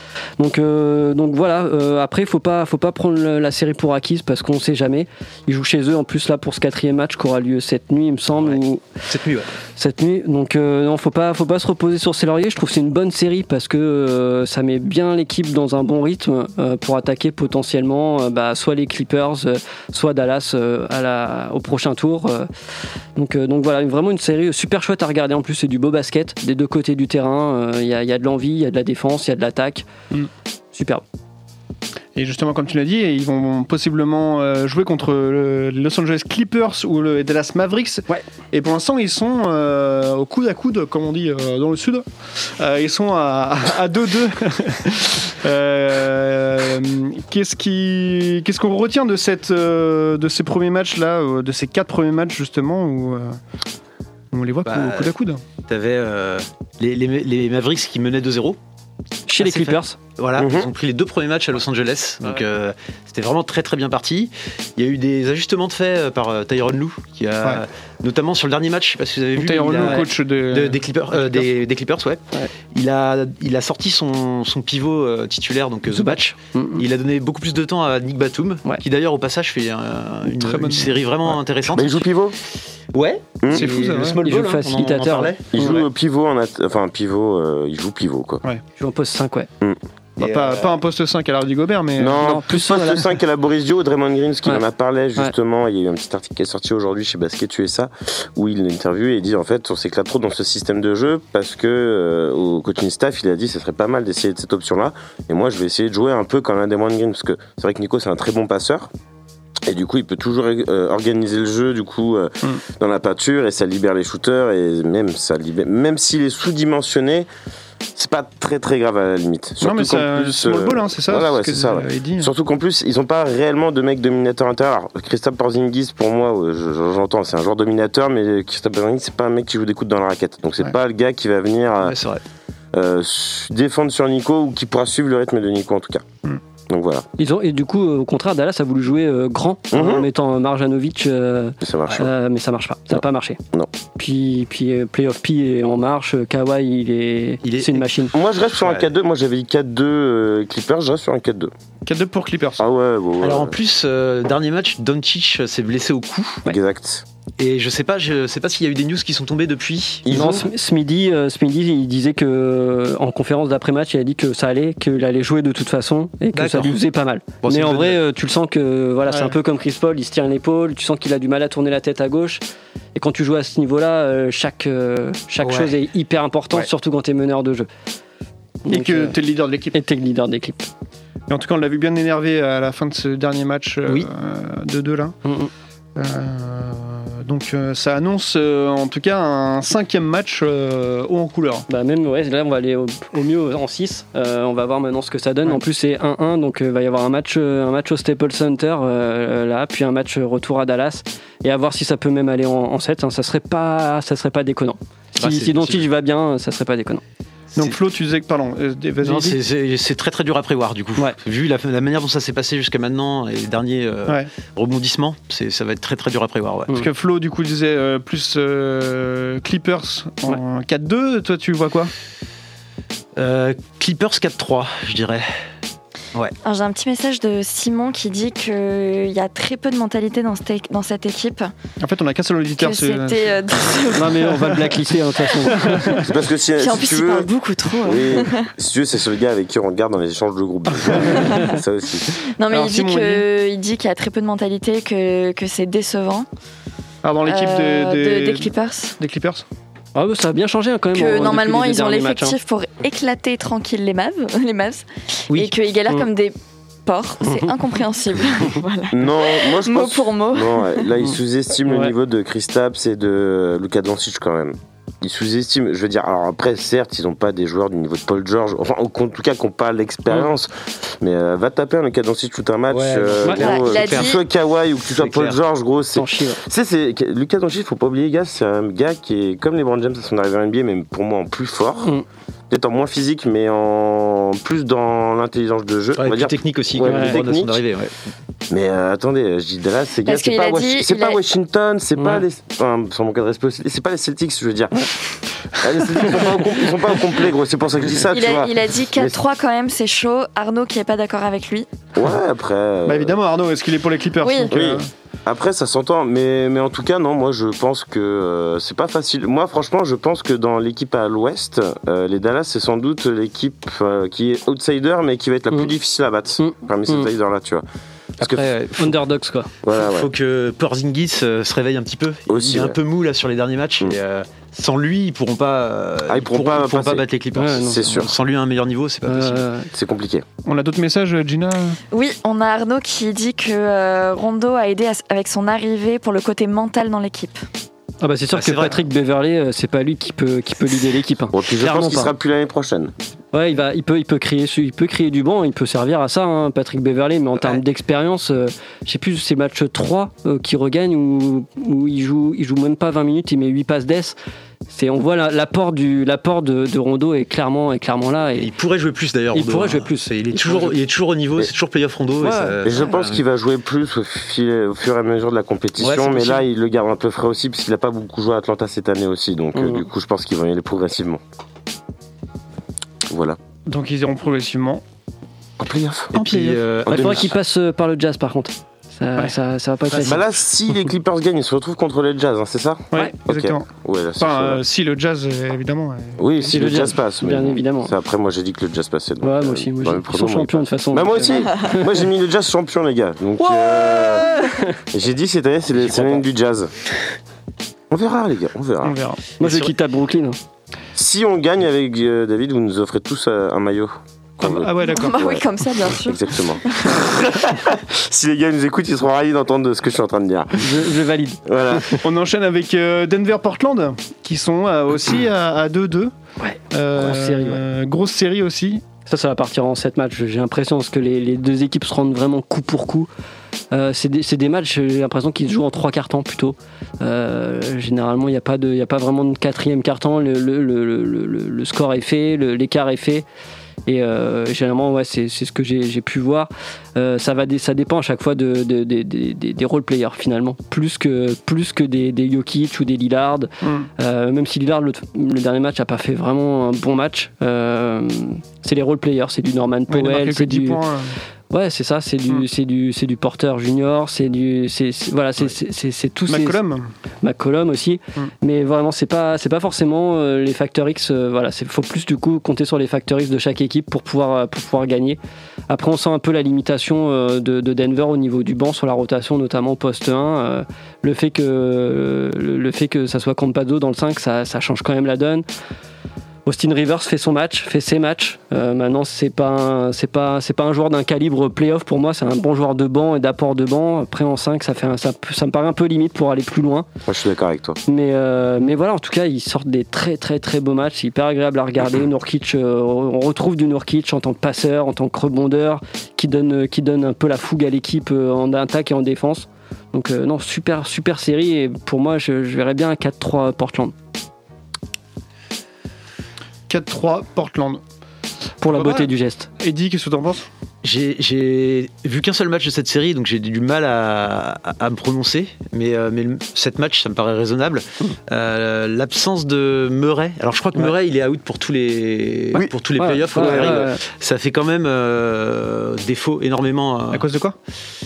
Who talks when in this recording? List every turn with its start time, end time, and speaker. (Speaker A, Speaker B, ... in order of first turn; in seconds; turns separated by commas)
Speaker A: 0.4-8.8, Speaker B: 8.4-9.5, Speaker A: 9.8-22.5, Speaker A: 23.1-29.9, Speaker A: 30.7-31.0, Speaker C: 32.1-42.0, Speaker C: 42.6-53.4, Speaker C: 54.3-55.4, Speaker B: 54.6-55.1, Speaker B: 55.7-58.6, Speaker A: 59.3-60.0, Speaker B: 59.4-82.1, Speaker D: 60.4-60.7, Speaker C: 69.3-71.5, Speaker A: 69.8-70.1, Speaker A: 75.9-76.8, Speaker C: 80.3-81.4, Speaker D: 81.7-82.3, Speaker B: 82.9-85.7, Speaker D: 83.4-83.7, Speaker C: 83.5-84.2, Speaker A: 84.2-85.8, Speaker D: 85.5-88.4, Speaker A: 88.8-89.5, Speaker B: 90.2-90.7, Speaker C: 90.2-92.3, Speaker D: 92.0-108.9, Speaker A: 92.1-93.0, Speaker D: 109.7-117.3, Speaker D: 117.9-132.0, Speaker C: 119.6-122.3, Speaker B: 131.8-132.2, Speaker D: 132.7-136.0, Speaker D: 136.7-137.1, Speaker A: 137.2-143.4, Speaker D: 139.7-140.1, Speaker D: 141.6-142.1, Speaker D: 142.9-143.7, Speaker A: 144.0-148.1, Speaker B: 147.4-148.9, Speaker D: 148.1-151.5, Speaker C: 151.8-152.6, Speaker D: 152.6-153.5, Speaker B: 153.2-156.4, Speaker D: 156.4-157.0, Speaker B: 157.4-160.1, Speaker D: 160.1-160.5, Speaker A: 160.1-172.4, Speaker B: 166.3-166.8, Speaker B: 167.4-168.0, Speaker C: 169.1-169.3, Speaker A: 172.9-177.7, Speaker B: 175.4-175.7, Speaker A: 178.7-179.2, Speaker C: 178.7-179.8, Speaker A: 179.7-180.7, Speaker C: 181.3-185.2, Speaker A: 185.2-185.5, Speaker C: 185.9-191.7, Speaker A: 191.7-207.0, Speaker B: 205.2-205.9, Speaker C: 207.6-209.4, Speaker B: 209.0-216.7, Speaker C: 216.7-221.9, Speaker B: 223.2-225.3, Speaker E: 226.4-231.5, Speaker C: 231.8-234.4, Speaker E: 232.6-234.6, Speaker A: 233.9-236.0, Speaker C: 235.5-236.1, Speaker D: 236.0-237.3, Speaker E: 236.6-238.5, Speaker D: 237.8-242.1, Speaker C: 240.8-241.4, Speaker E: 242.4-246.3, Speaker C: 242.5-243.2, Speaker C: 247.0-249.4, Speaker E: 247.2-248.9, Speaker A: 249.9-252.4, Speaker E: 250.9-260.9, Speaker D: 258.9-281.9, Speaker A: 261.6-261.9, Speaker B: 272.7-274.2, Speaker E: 273.4-274.2, Speaker B: 274.9-275.4, Speaker A: 275.9-276.4, Speaker D: 282.5-287.6, Speaker B: 285.9-287.9, Speaker A: 286.8-287.2, Speaker D: 288.5-294.9, Speaker E: 290.0-291.2, Speaker D: 295.6-299.2, Speaker E: 298.1-301.7, Speaker D: 301.9-303.2, Speaker C: 302.9-304.9, Speaker E: 304.2-304.5, Speaker D: 304.5-317.6, Speaker A: 316.4-317.1, Speaker D: 318.2-318.4, Speaker B: 318.2-319.0, Speaker A: 318.8-319.5, Speaker D: 319.6-320.1, Speaker B: 319.7-329.4, Speaker D: 322.3-322.8, Speaker D: 326.1-327.0, Speaker A: 327.3-327.8, Speaker D: 327.6-328.1, Speaker A: 329.1-329.7, Speaker D: 329.7-330.2, Speaker C: 330.4-331.8, Speaker E: 331.9-337.4, Speaker A: 338.0-342.1, Speaker B: 338.3-338.8, Speaker D: 341.3-342.9, Speaker A: 343.3-354.1, Speaker A: 354.7-358.5, Speaker B: 358.3-363.2, Speaker A: 359.3-360.8, Speaker A: 362.2-362.9, Speaker D: 362.6-371.2, Speaker B: 365.8-366.4, Speaker A: 369.5-369.8, Speaker D: 373.1-373.4, Speaker C: 373.6-374.8, Speaker D: 375.6-376.2, Speaker B: 376.1-377.3, Speaker C: 376.3-376.5, Speaker D: 376.9-377.3, Speaker A: 376.9-380.2, Speaker B: 379.9-380.2, Speaker D: 380.0-384.6, Speaker C: 382.9-386.2, Speaker D: 386.2-394.3, Speaker A: 386.5-387.9, Speaker A: 389.2-391.9, Speaker A: 393.4-394.8, Speaker D: 394.9-396.7, Speaker B: 395.8-396.2, Speaker D: 397.9-398.9, Speaker C: 398.8-399.2, Speaker A: 399.4-400.4, Speaker B: 399.4-399.7, Speaker D: 400.9-410.8, Speaker C: 404.4-405.1, Speaker E: 404.9-406.9, Speaker A: 410.6-411.4, Speaker D: 411.4-412.0, Speaker C: 412.0-416.1, Speaker A: 416.4-417.6, Speaker C: 416.7-418.8, Speaker A: 419.1-423.1, Speaker A: 423.7-433.2, Speaker A: 433.9-450.8, Speaker C: 443.6-443.9, Speaker C: 449.9-451.1, Speaker A: 451.5-456.6, Speaker C: 456.3-456.9, Speaker A: 457.2-475.4, Speaker A: 476.4-486.9, Speaker D: 487.1-487.8, Speaker A: 487.9-503.9, Speaker C: 506.7-507.8, Speaker A: 508.6-509.5, Speaker C: 508.6-510.4, Speaker B: 510.8-527.3, Speaker A: 523.0-524.0, Speaker C: 527.1-527.6